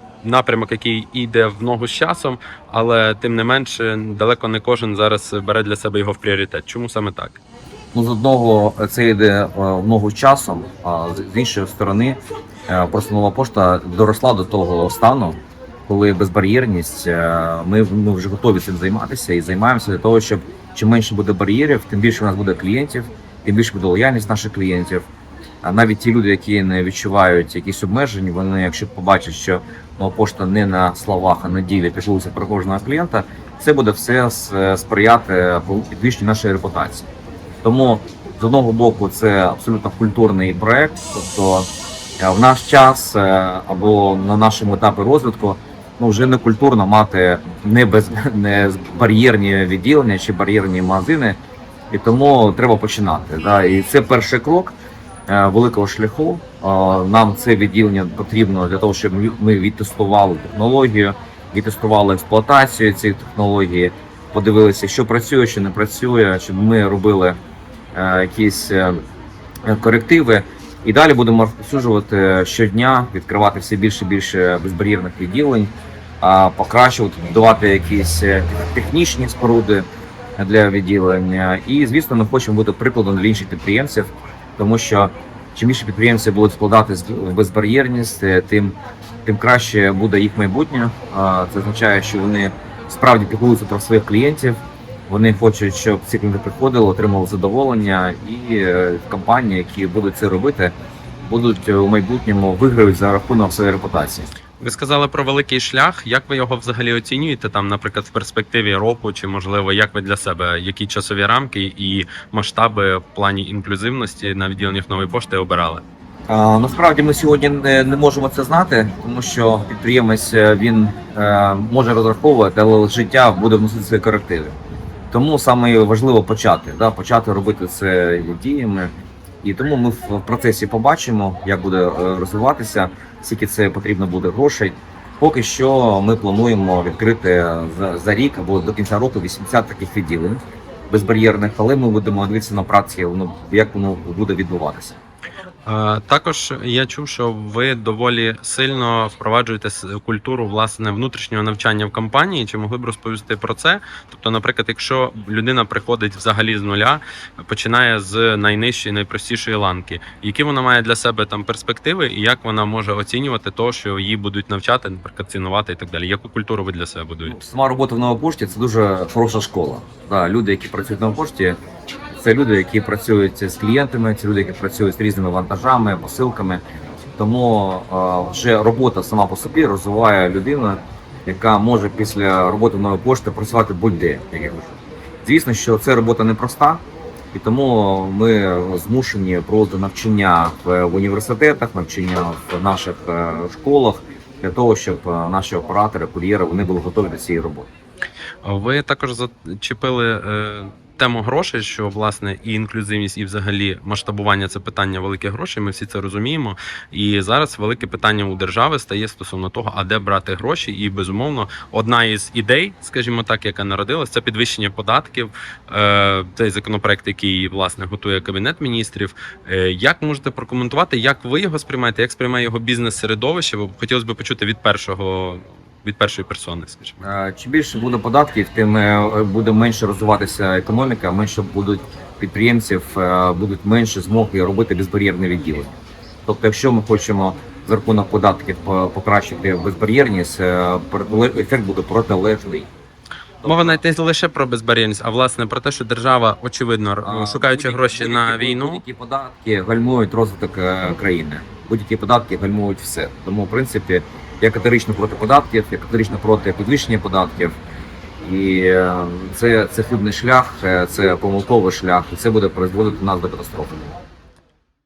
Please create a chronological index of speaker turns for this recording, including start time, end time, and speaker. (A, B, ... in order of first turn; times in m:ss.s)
0:00.2-0:07.4 A
0:07.9-0:25.0 B
0:25.6-0:37.1 B
0:37.6-0:51.4 B
0:51.9-0:54.8 B
0:55.3-1:07.4 B
1:07.9-1:09.0 B
1:09.6-1:19.9 B
1:20.4-1:44.3 B
1:44.6-1:55.8 A
1:56.3-2:04.6 B
2:05.1-2:25.0 B
2:25.7-2:47.4 A
2:47.2-2:51.6 B
2:52.2-2:56.6 B
2:57.2-3:17.7 B
3:18.4-3:47.0 A
3:47.0-3:55.8 B
3:56.3-4:02.7 B
4:03.4-4:03.8 B
4:03.4-4:08.8 A
4:07.0-4:17.6 B
4:18.2-4:23.9 B